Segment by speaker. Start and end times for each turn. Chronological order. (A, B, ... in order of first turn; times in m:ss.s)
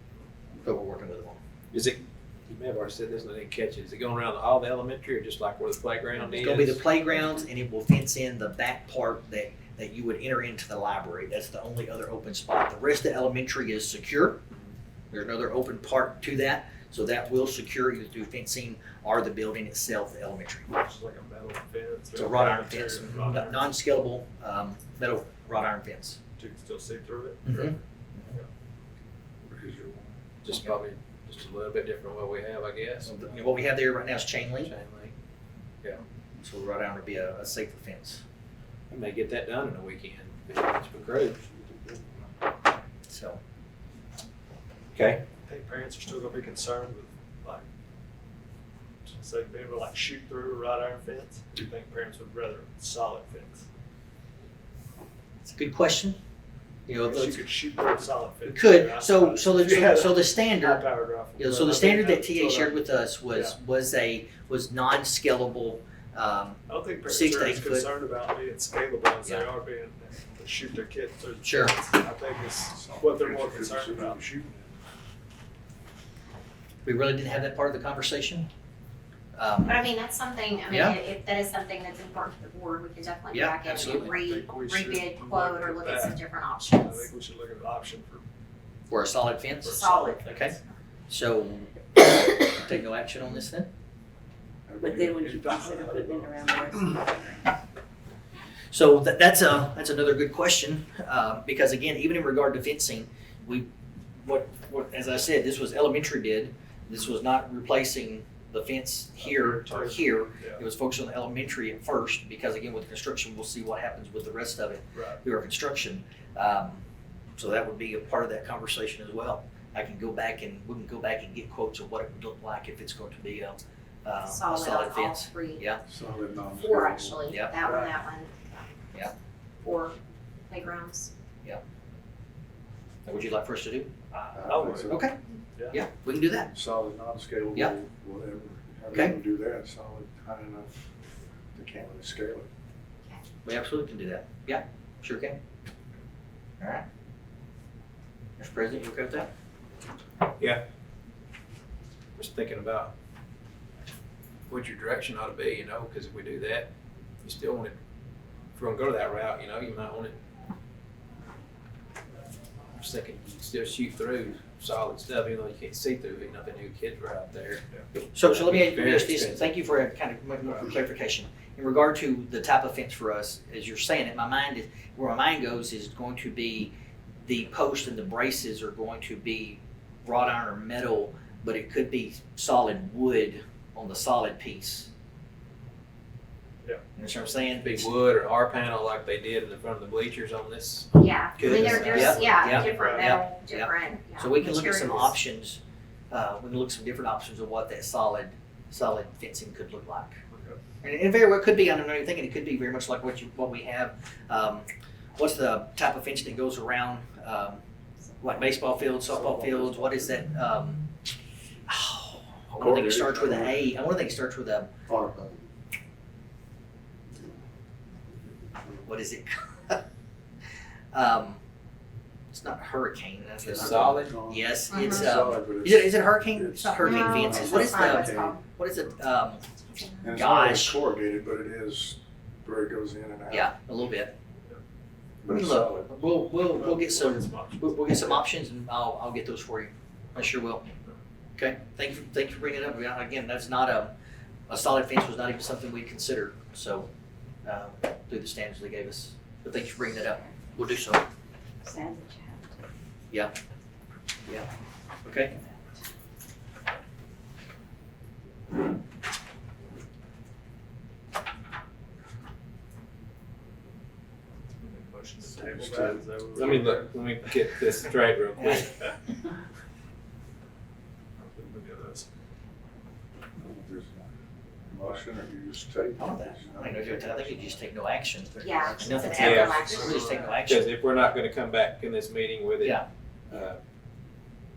0:00.6-0:01.4 A
0:01.7-0:06.8 B
0:06.4-0:14.4 A
0:15.1-0:20.7 A
0:20.7-0:23.7 C
0:22.2-0:26.2 A
0:26.4-0:27.8 C
0:27.4-0:28.4 A
0:29.4-0:30.2 D
0:30.4-0:33.1 B
0:33.1-0:34.7 A
0:34.6-0:35.1 B
0:36.4-0:38.2 A
0:38.9-0:41.5 B
0:43.1-0:43.4 A
0:44.9-0:45.2 B
0:45.4-0:47.6 C
0:49.0-0:53.6 C
0:55.4-0:56.2 A
0:56.8-0:57.4 A
0:57.0-1:03.5 C
0:58.4-1:00.8 A
1:01.4-1:07.9 A
1:06.7-1:14.2 C
1:11.4-1:11.8 A
1:12.7-1:14.8 D
1:16.8-1:18.5 A
1:19.3-1:19.8 A
1:19.7-1:27.1 E
1:20.7-1:21.0 A
1:23.3-1:24.2 A
1:23.7-1:26.2 C
1:26.8-1:28.2 C
1:28.9-1:30.6 A
1:29.6-1:30.6 C
1:29.8-1:30.2 E
1:31.1-1:33.7 A
1:34.7-1:35.2 D
1:34.8-1:37.2 F
1:34.8-1:37.0 C
1:38.7-1:43.7 A
1:44.2-1:56.8 A
1:49.2-1:50.6 C
1:54.9-1:55.2 C
1:57.4-2:05.8 A
2:04.2-2:05.6 E
2:05.9-2:07.9 D
2:06.6-2:08.7 E
2:07.3-2:07.6 A
2:09.6-2:10.0 E
2:10.5-2:11.1 E
2:13.0-2:13.9 A
2:14.1-2:15.0 C
2:14.3-2:15.0 D
2:14.8-2:15.1 A
2:15.7-2:16.5 A
2:16.5-2:20.9 D
2:21.5-2:22.5 D
2:23.4-2:25.4 A
2:28.4-2:29.3 A
2:32.2-2:32.9 B
2:34.5-2:36.7 B
2:37.2-2:37.7 B
2:38.5-2:40.1 B
2:42.8-2:49.5 B
2:48.1-2:56.7 A
2:57.2-3:04.9 A
3:07.0-3:07.9 A
3:07.6-3:12.6 B
3:10.9-3:15.1 E
3:11.4-3:15.6 A
3:12.4-3:13.2 C
3:16.1-3:20.2 A
3:20.3-3:20.6 C
3:20.8-3:27.6 A
3:28.2-3:30.8 A
3:29.1-3:30.0 C
3:31.7-3:34.7 A
3:32.6-3:33.6 D
3:34.9-3:35.4 D
3:38.8-3:39.8 A
3:40.9-3:41.4 A
3:42.3-3:49.4 A
3:43.4-3:44.2 B
3:43.5-3:48.4 D
3:44.7-3:45.1 E
3:46.8-3:48.4 E
3:49.7-3:50.0 E
3:50.0-3:53.5 D
3:50.1-3:50.8 A
3:53.3-3:54.1 A
3:55.2-3:55.9 D
3:55.3-4:00.7 A
3:56.6-3:58.3 C
4:01.4-4:03.9 A
4:04.5-4:06.9 A
4:07.4-4:11.0 A
4:11.6-4:12.2 F
4:15.0-4:15.3 A
4:24.6-4:27.1 C
4:25.2-4:26.0 D
4:26.3-4:28.8 B
4:28.4-4:28.6 A
4:31.2-4:32.1 C
4:33.4-4:34.1 D
4:34.7-4:37.7 D
4:36.0-4:40.7 A
4:38.4-4:40.4 E
4:38.6-4:39.2 D
4:39.1-4:39.7 B
4:39.6-4:40.3 C
4:40.3-4:43.6 B
4:42.6-4:43.4 A